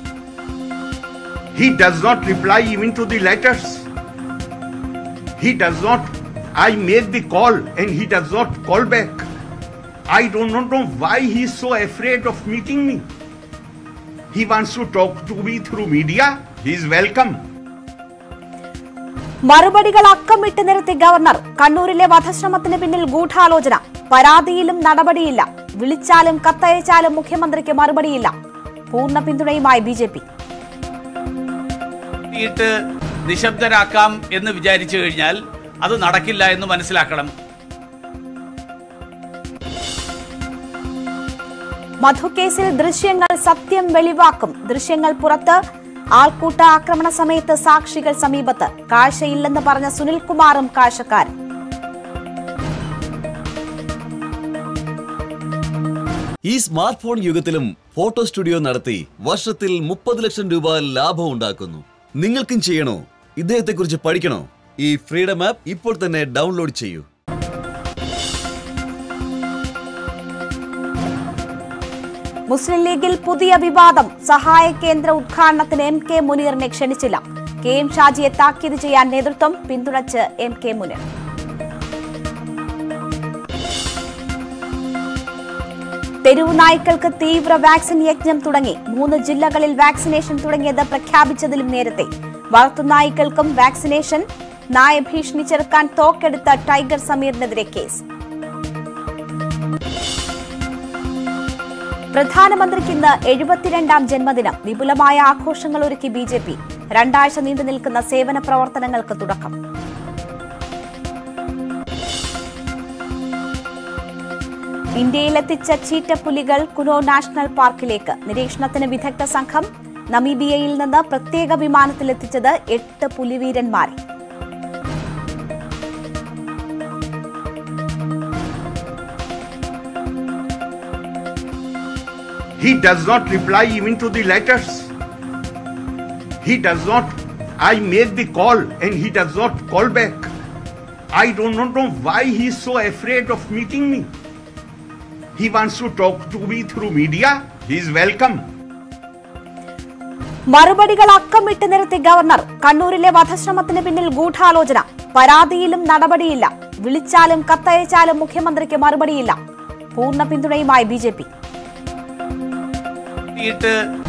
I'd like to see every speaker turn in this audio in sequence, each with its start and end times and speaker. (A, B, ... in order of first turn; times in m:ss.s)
0:01.5-0:03.8 A
0:05.4-0:09.3 A
0:10.1-0:13.0 A
0:14.3-0:17.4 A
0:19.4-0:28.3 B
0:28.9-0:30.2 B
0:32.3-0:32.7 C
0:33.3-0:37.3 C
0:42.0-0:45.6 B
0:46.2-0:51.3 B
0:56.5-1:07.0 D
1:12.5-1:21.0 B
1:26.2-1:38.0 B
1:42.1-1:49.5 B
1:55.0-2:04.0 B
2:12.6-2:14.9 A
2:16.4-2:20.3 A
2:21.1-2:24.1 A
2:25.4-2:28.4 A
2:30.5-2:39.4 B
2:39.9-2:41.3 B
2:43.4-2:43.7 C